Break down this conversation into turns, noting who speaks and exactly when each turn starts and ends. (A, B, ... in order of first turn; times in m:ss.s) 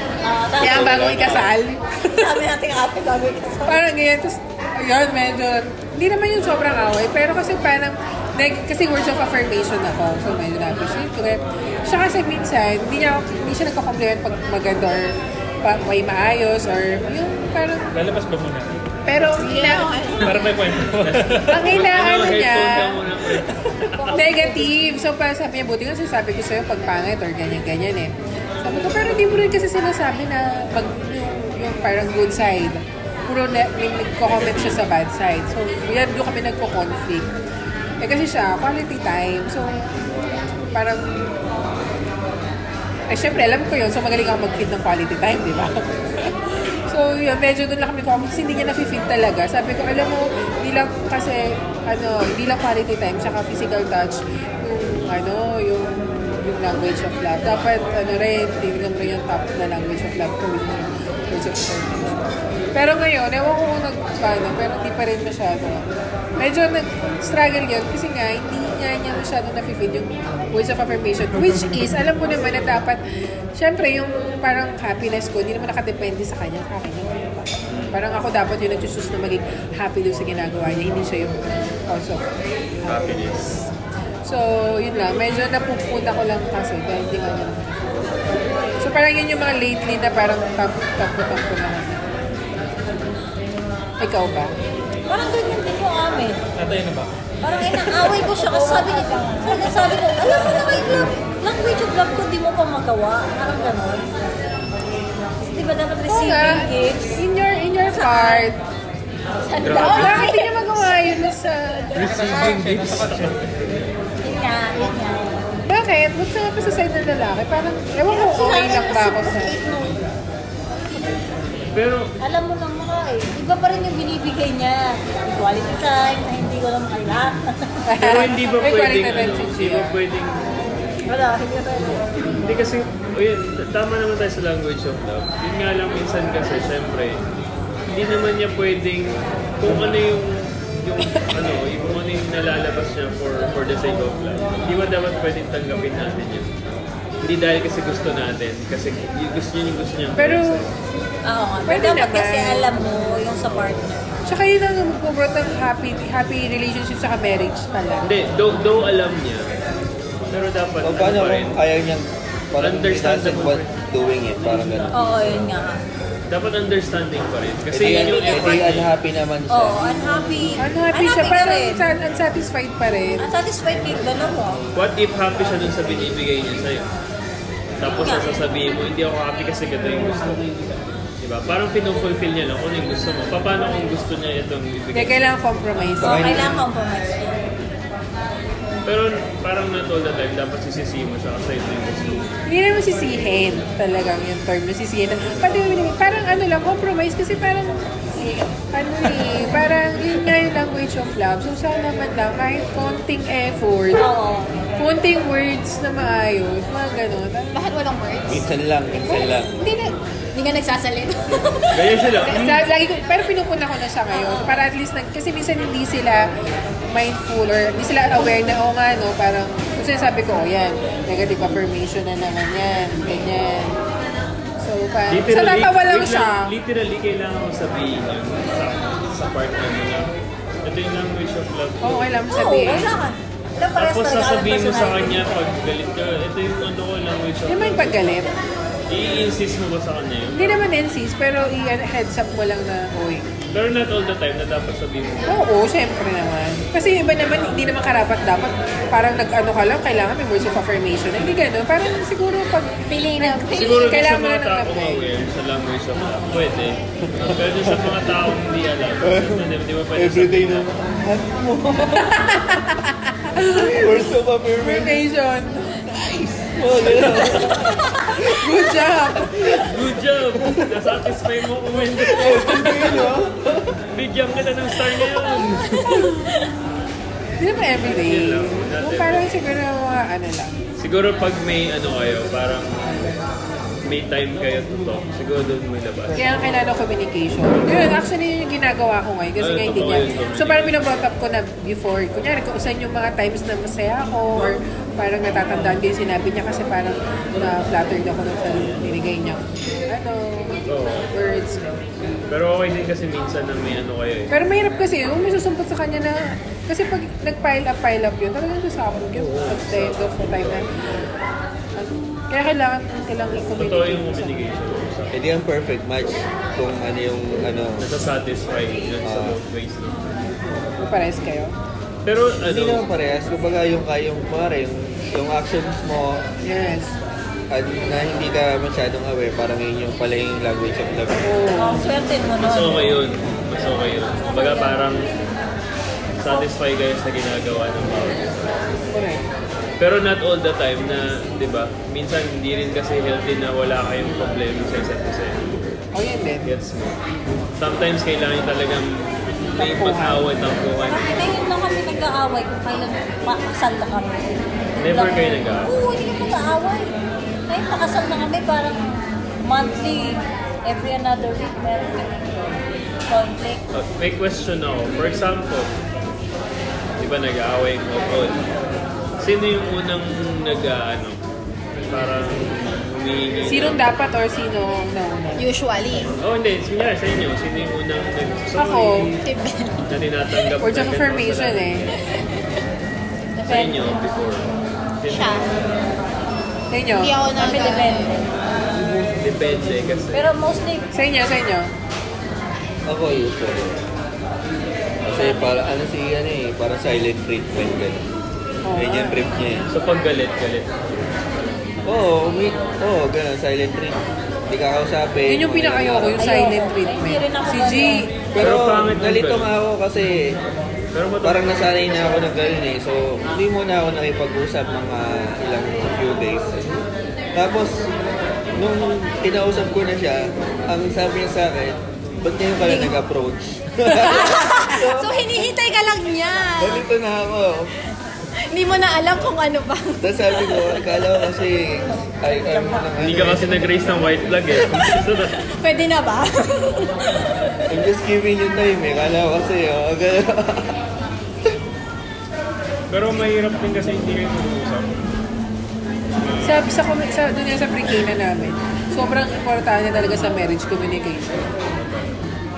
0:00.2-0:01.4 A
0:00.6-0:01.5 B
0:00.6-0:02.4 C
0:02.1-0:03.8 A
0:03.7-0:18.0 C
0:17.9-0:18.8 D
0:19.1-0:20.1 C
0:19.3-0:20.5 E
0:20.2-0:21.6 D
0:20.9-0:24.2 F
0:21.5-0:23.1 C
0:23.8-0:24.7 A
0:24.0-0:37.3 C
0:34.3-0:34.8 F
0:38.0-0:39.9 C
0:40.7-0:41.3 C
0:43.1-1:05.9 C
1:06.4-1:13.0 C
1:13.6-1:22.3 C
1:17.7-1:18.0 F
1:22.8-1:23.2 C
1:22.8-1:23.6 F
1:24.2-1:28.0 C
1:28.8-1:32.0 C
1:34.0-1:34.6 C
1:35.1-1:36.4 A
1:36.6-1:38.3 D
1:37.4-1:44.2 A
1:38.4-1:39.6 E
1:45.4-1:47.2 A
1:46.1-1:48.6 C
1:48.0-1:48.5 E
1:49.4-1:50.7 E
1:49.6-1:50.3 F
1:49.8-1:51.9 C
1:51.9-1:53.5 F
1:51.9-1:53.5 D
1:54.2-1:55.5 A
1:55.7-1:59.5 C
1:58.1-2:00.0 E
2:01.7-2:02.2 F
2:02.2-2:07.8 A
2:07.9-2:10.0 C
2:08.0-2:10.7 F
2:11.1-2:12.0 A
2:12.4-2:17.2 F
2:17.9-2:26.5 F
2:27.2-2:30.7 F
2:30.2-2:30.7 C
2:31.2-2:34.0 A
2:31.7-2:32.7 C
2:33.5-2:33.7 F
2:34.3-2:38.1 C
2:38.0-2:39.5 F
2:40.3-2:41.6 F
2:40.8-2:44.9 B
2:42.6-2:43.7 F
2:44.9-2:45.8 A
2:46.3-2:48.9 F
2:47.7-2:49.8 B
2:48.0-2:48.4 A
2:49.5-2:51.9 A
2:50.6-2:53.3 C
2:53.2-2:54.6 A
2:54.7-2:56.9 F
2:57.8-3:00.4 F
2:57.9-2:58.3 A
3:01.2-3:05.3 F
3:04.9-3:06.6 C
3:06.0-3:06.6 B
3:06.0-3:07.5 A
3:08.8-3:12.3 F
3:12.5-3:24.0 C
3:24.0-3:24.5 A
3:24.8-3:27.7 C
3:27.5-3:28.4 E
3:28.3-3:29.5 B
3:29.1-3:29.9 C
3:30.3-3:32.4 E
3:31.3-3:32.6 F
3:32.3-3:36.3 C
3:36.9-3:43.8 C
3:44.6-3:46.5 C
3:45.1-3:50.1 F
3:50.6-3:52.2 F
3:51.8-3:53.0 C
3:52.3-3:55.4 A
3:53.8-3:58.2 F
3:57.5-3:58.3 C
3:58.9-4:00.6 F
4:00.3-4:03.3 C
4:03.5-4:05.4 F
4:05.3-4:15.0 C
4:12.9-4:14.0 E
4:13.5-4:20.7 F
4:17.0-4:18.3 B
4:19.0-4:22.4 B
4:22.0-4:25.9 C
4:23.5-4:25.0 B
4:25.9-4:28.4 B
4:26.9-4:29.7 C
4:29.3-4:29.7 B
4:29.6-4:33.0 F
4:30.4-4:30.9 B
4:32.0-4:33.8 B
4:32.2-4:33.1 C
4:33.9-4:36.1 F
4:35.2-4:36.5 E
4:37.4-4:40.6 C
4:37.8-4:39.3 F
4:40.8-4:43.2 F
4:43.8-4:46.3 F
4:46.2-5:01.7 C
4:49.4-4:51.1 F
5:00.7-5:01.1 F
5:02.3-5:04.3 F
5:04.3-5:10.7 C
5:09.2-5:10.6 F
5:11.8-5:14.4 C
5:13.6-5:15.2 F
5:15.1-5:17.9 B
5:17.8-5:20.1 F
5:19.0-5:19.4 B
5:20.8-5:21.5 C
5:22.0-5:22.9 F
5:22.4-5:26.2 B
5:26.4-5:27.0 C
5:27.5-5:31.4 B
5:31.2-5:31.9 C
5:31.5-5:33.0 A
5:32.4-5:35.1 F
5:34.2-5:34.8 A
5:36.2-5:38.3 F
5:38.9-5:39.2 C
5:39.8-5:45.8 F
5:46.0-5:46.5 C
5:46.4-5:47.0 F
5:47.6-5:51.2 F
5:49.6-5:50.3 C
5:50.9-5:56.9 A
5:54.8-5:55.7 F
5:57.5-6:02.4 A
6:03.1-6:03.6 A
6:03.7-6:05.7 F
6:07.0-6:08.4 F
6:09.2-6:11.2 F
6:11.8-6:13.9 F
6:13.5-6:15.5 C
6:15.4-6:16.1 E
6:16.2-6:19.1 F
6:18.6-6:19.1 C
6:19.2-6:19.8 E
6:19.9-6:22.0 F
6:20.6-6:21.9 C
6:21.9-6:22.6 E
6:23.4-6:24.0 E
6:23.5-6:25.5 F
6:25.1-6:25.5 E
6:26.7-6:27.2 C
6:26.9-6:28.2 E
6:27.4-6:28.4 A
6:29.2-6:30.3 F
6:30.1-6:30.9 A
6:30.9-6:31.7 C
6:32.9-6:33.8 B
6:35.0-6:38.1 B
6:38.6-6:39.2 C
6:38.7-6:39.7 B
6:39.7-6:40.8 F
6:41.9-6:46.2 B
6:45.3-6:48.2 C
6:46.2-6:48.1 A
6:48.3-6:50.4 B
6:48.4-6:49.5 F
6:50.9-6:51.7 F
6:51.2-6:56.7 B
6:57.3-6:57.9 B
6:58.6-7:05.5 B
7:02.6-7:02.9 E
7:03.9-7:06.9 E
7:06.6-7:07.7 B
7:08.5-7:10.9 E
7:10.0-7:13.9 B
7:13.0-7:15.4 F
7:15.3-7:17.3 E
7:17.7-7:20.8 B
7:22.9-7:25.0 F
7:26.2-7:26.7 F
7:26.4-7:31.5 C
7:31.8-7:32.1 F